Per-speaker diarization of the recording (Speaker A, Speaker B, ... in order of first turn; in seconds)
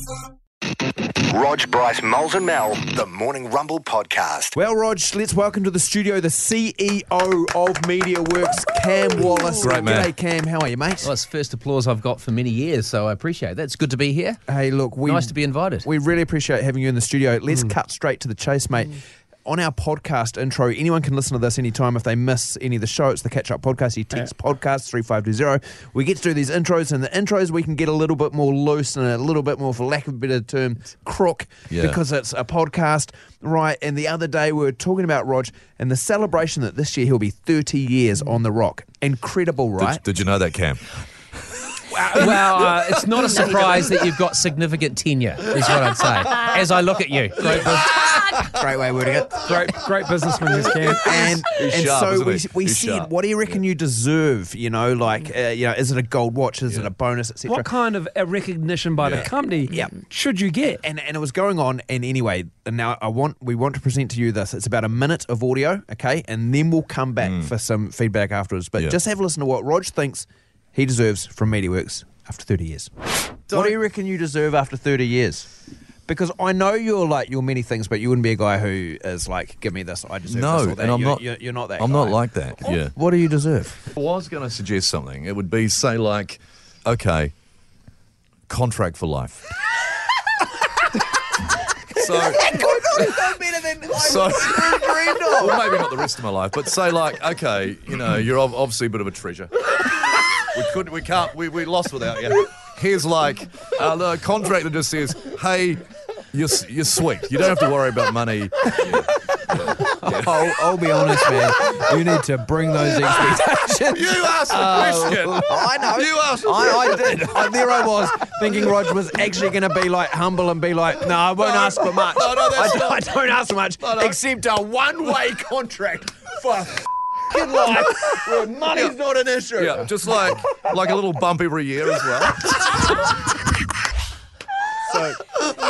Speaker A: 1.3-4.5
Speaker B: 4.5-11.1, 14.5-40.0, 48.4-49.8, 51.0-57.7, 59.7-60.0, 60.8-75.5, 76.1-83.8, 92.1-95.7, 109.8-130.3, 134.9-135.2
Speaker C: 9.6-10.1, 31.7-32.0, 39.8-40.8, 42.2-42.7, 51.6-53.6, 59.0-59.3, 67.2-67.5, 73.5-73.8, 80.4-81.3, 81.8-82.9, 84.0-87.3, 88.5-89.5, 92.0-93.2, 94.0-110.4, 113.9-117.4, 121.4-123.0, 123.8-124.2, 129.6-132.7
Speaker D: 11.0-14.4, 15.0-15.9, 41.9-48.0
Speaker E: 49.5-51.3, 57.5-60.8